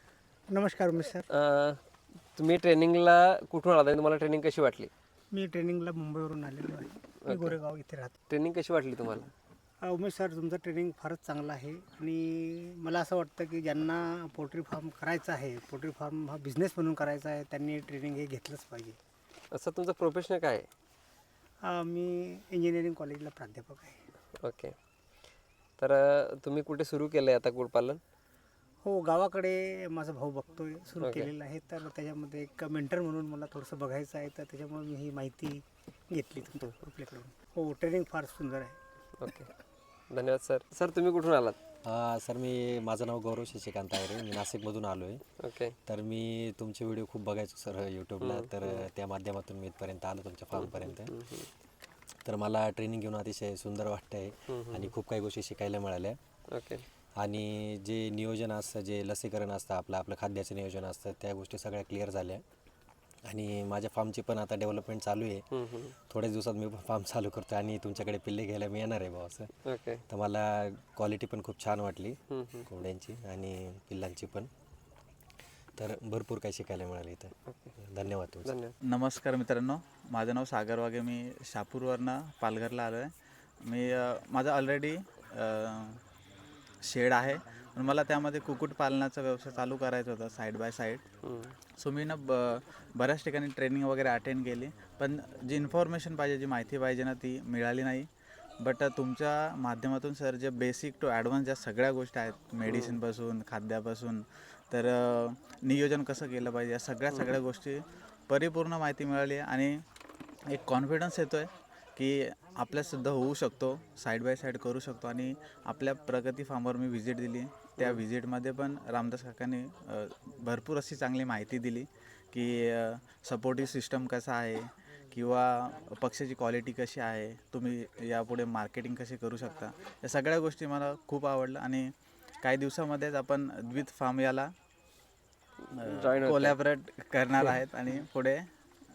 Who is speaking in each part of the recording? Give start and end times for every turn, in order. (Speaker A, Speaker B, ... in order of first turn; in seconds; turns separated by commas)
Speaker A: 0.5-1.2, Speaker B: 1.3-1.8, Speaker B: 2.4-4.9, Speaker A: 5.3-8.1, Speaker B: 7.2-7.5, Speaker B: 8.3-9.3, Speaker A: 9.8-19.0, Speaker B: 19.5-20.7, Speaker A: 21.6-24.0, Speaker B: 24.4-24.7, Speaker B: 25.8-28.0, Speaker A: 28.8-38.8, Speaker B: 31.0-31.3, Speaker B: 39.2-39.5, Speaker B: 40.1-41.6, Speaker C: 41.8-45.2, Speaker B: 45.4-45.7, Speaker C: 45.9-51.1, Speaker B: 48.2-48.9, Speaker B: 50.5-51.5, Speaker C: 52.2-56.2, Speaker B: 54.5-54.9, Speaker B: 56.5-56.8, Speaker C: 57.2-62.4, Speaker C: 63.2-65.5, Speaker B: 65.5-65.9, Speaker C: 66.1-69.5, Speaker B: 69.6-70.0, Speaker C: 70.1-74.5, Speaker B: 72.3-72.7, Speaker C: 75.8-78.5, Speaker B: 77.5-77.7, Speaker B: 78.4-78.7, Speaker D: 78.8-83.1, Speaker D: 83.6-86.0, Speaker D: 86.8-91.0, Speaker B: 91.2-91.5, Speaker D: 91.8-98.1, Speaker D: 98.6-109.8, Speaker B: 102.7-103.0, Speaker D: 110.5-131.9, Speaker D: 132.4-134.5, Speaker D: 135.7-138.4, Speaker B: 135.8-136.6